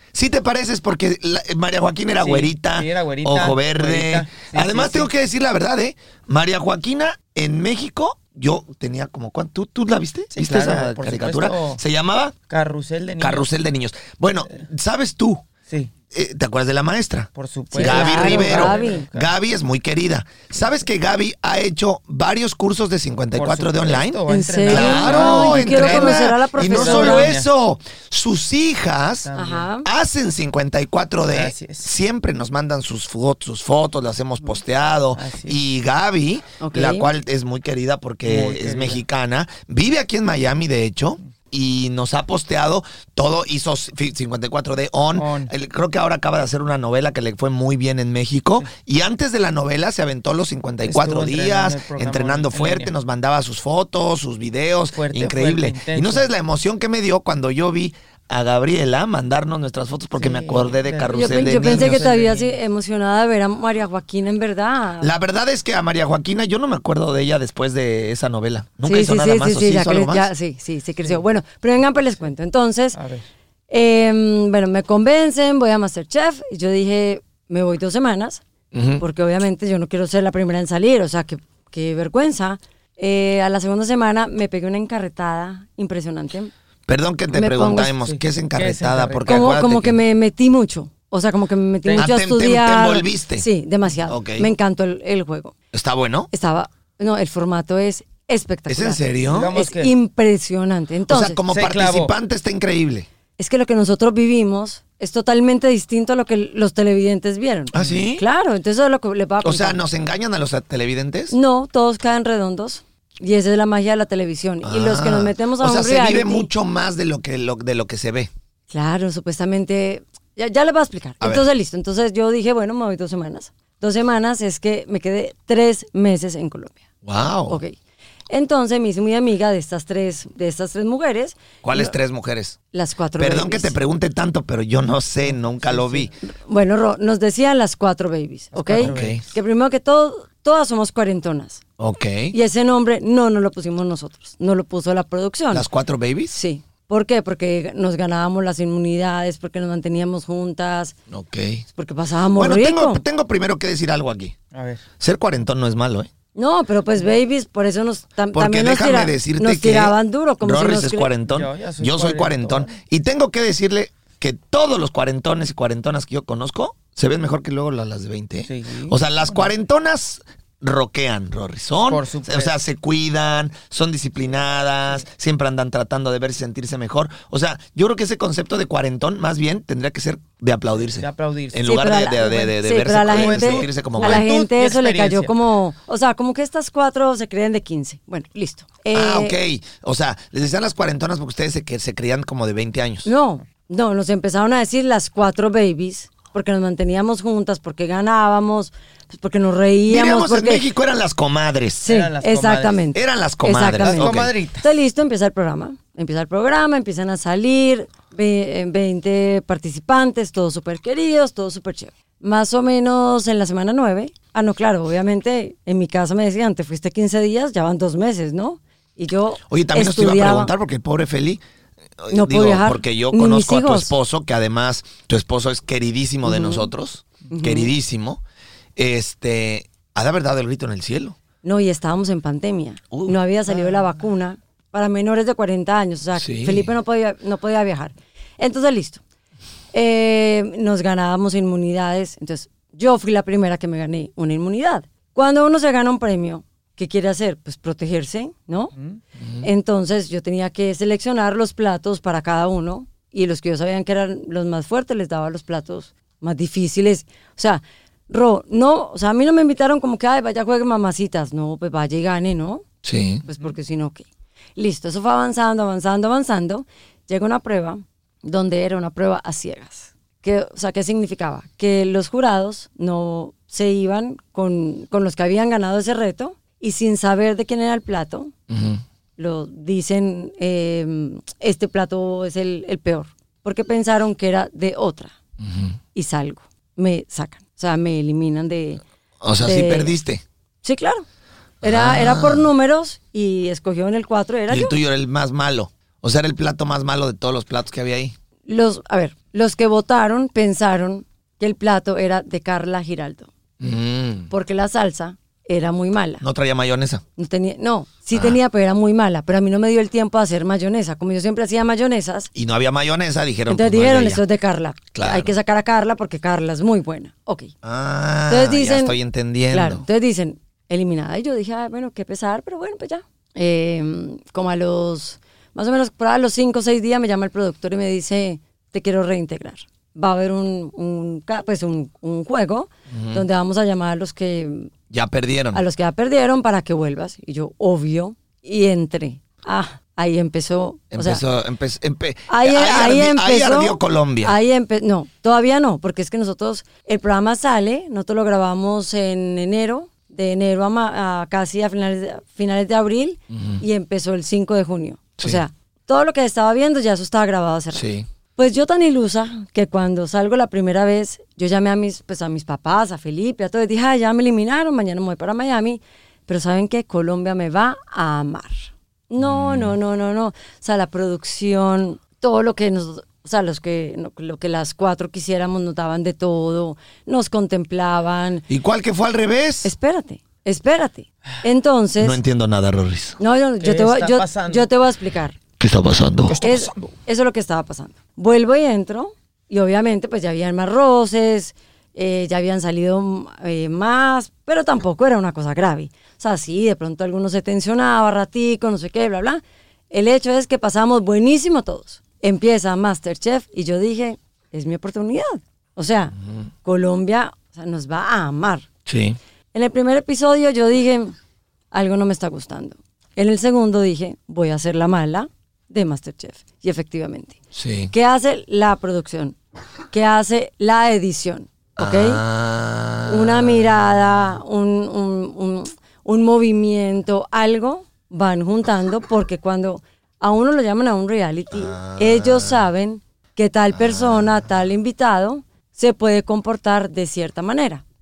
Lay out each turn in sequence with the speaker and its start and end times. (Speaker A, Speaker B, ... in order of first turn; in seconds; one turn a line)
Speaker A: 0.1-12.3
Speaker B: 2.1-5.1
Speaker B: 10.3-11.8
Speaker B: 12.5-13.5
Speaker A: 13.2-15.4
Speaker A: 16.1-29.3
Speaker B: 17.4-19.3
Speaker C: 17.7-19.0
Speaker B: 23.3-27.5
Speaker C: 24.3-27.3
Speaker B: 29.2-29.7
Speaker C: 29.4-29.9
Speaker A: 29.8-62.1
Speaker B: 31.3-31.9
Speaker B: 35.1-35.6
Speaker C: 36.6-37.1
Speaker B: 38.2-39.0
Speaker B: 45.1-45.5
Speaker B: 50.9-52.9
Speaker B: 54.9-56.3
Speaker B: 60.2-62.6
Speaker C: 61.1-65.1
Speaker A: 65.0-70.3
Speaker C: 68.8-73.0
Speaker B: 72.9-73.3
Speaker C: 73.7-78.4
Speaker A: 78.7-79.0
Speaker C: 79.0-86.5
Speaker A: 86.9-90.0
Speaker C: 87.3-87.9
Speaker B: 88.0-89.5
Speaker C: 89.2-95.5
Speaker B: 91.8-92.1
Speaker A: 92.0-93.5
Speaker A: 94.0-94.5
Speaker A: 95.7-96.3
Speaker C: 96.3-101.4
Speaker A: 98.7-99.5
Speaker B: 99.2-99.9
Speaker A: 101.1-103.1
Speaker B: 101.5-102.1
Speaker C: 103.4-109.8
Speaker A: 107.7-108.2
Speaker A: 109.4-111.3
Speaker C: 111.3-116.5
Speaker A: 114.6-118.3
Speaker C: 118.7-126.8
Speaker A: 121.2-121.5
Speaker A: 127.0-127.6
Speaker C: 127.5-127.7
Speaker C: 128.3-131.9
Speaker A: 131.6-132.6
Speaker C: 132.7-133.8
Speaker A: 133.2-136.1
Speaker B: 135.3-136.1
Speaker C: 136.2-141.6
Speaker B: 138.5-139.2
Speaker A: 138.8-139.2
Speaker A: 141.8-142.3
Speaker C: 142.3-145.7
Speaker A: 145.5-146.3
Speaker C: 146.3-150.9
Speaker A: 151.1-151.6
Speaker C: 151.7-153.0
Speaker A: 152.3-154.3
Speaker B: 154.5-154.8
Speaker A: 155.0-156.1
Speaker C: 156.3-161.1
Speaker A: 158.3-184.3
Speaker B: 161.2-162.7
Speaker B: 168.5-169.5
Speaker B: 171.9-172.5
Speaker B: 180.9-181.7
Speaker C: 181.7-189.4
Speaker B: 183.0-185.3
Speaker A: 188.9-193.1
Speaker C: 193.0-200.7
Speaker A: 199.9-201.9
Speaker C: 201.8-220.5
Speaker B: 201.8-202.8
Speaker A: 202.9-204.3
Speaker B: 203.7-204.7
Speaker A: 219.5-221.4
Speaker A: 222.0-228.2
Speaker C: 222.1-223.9
Speaker C: 226.2-226.7
Speaker C: 227.3-227.7
Speaker A: 228.8-231.2
Speaker C: 231.4-239.0
Speaker A: 236.2-236.7
Speaker C: 239.7-248.7
Speaker A: 249.2-249.5
Speaker C: 249.4-262.6
Speaker A: 262.8-263.2
Speaker C: 263.2-278.3
Speaker A: 278.5-278.8
Speaker C: 279.2-285.1
Speaker A: 285.4-285.8
Speaker C: 285.9-288.8
Speaker A: 289.2-290.2
Speaker C: 289.4-289.9
Speaker C: 290.6-291.0
Speaker A: 291.6-292.5
Speaker C: 291.6-294.8
Speaker A: 294.5-298.1
Speaker C: 298.4-303.3
Speaker A: 303.6-304.3
Speaker C: 304.3-306.2
Speaker A: 306.2-307.0
Speaker C: 307.2-312.3
Speaker A: 308.1-308.4
Speaker A: 312.3-314.2
Speaker C: 313.5-317.5
Speaker A: 314.9-315.3
Speaker A: 317.6-319.8
Speaker C: 318.3-319.0
Speaker C: 319.5-334.7
Speaker A: 332.9-333.2
Speaker A: 334.9-335.6
Speaker C: 335.5-341.2
Speaker A: 340.9-344.4
Speaker C: 342.3-357.8
Speaker A: 353.3-353.6
Speaker A: 357.7-358.1
Speaker C: 358.4-378.5
Speaker A: 369.2-369.7
Speaker A: 378.5-379.7
Speaker C: 379.6-382.2
Speaker A: 382.0-383.2
Speaker C: 383.2-385.4
Speaker B: 383.6-384.7
Speaker A: 385.6-386.4
Speaker B: 386.3-386.9
Speaker C: 386.4-408.6
Speaker A: 408.9-409.2
Speaker C: 409.5-411.1
Speaker C: 411.7-417.4
Speaker A: 417.5-417.9
Speaker C: 417.9-419.4
Speaker C: 419.9-422.2
Speaker A: 421.8-423.7
Speaker C: 423.1-437.8
Speaker A: 431.5-432.6
Speaker A: 433.7-434.4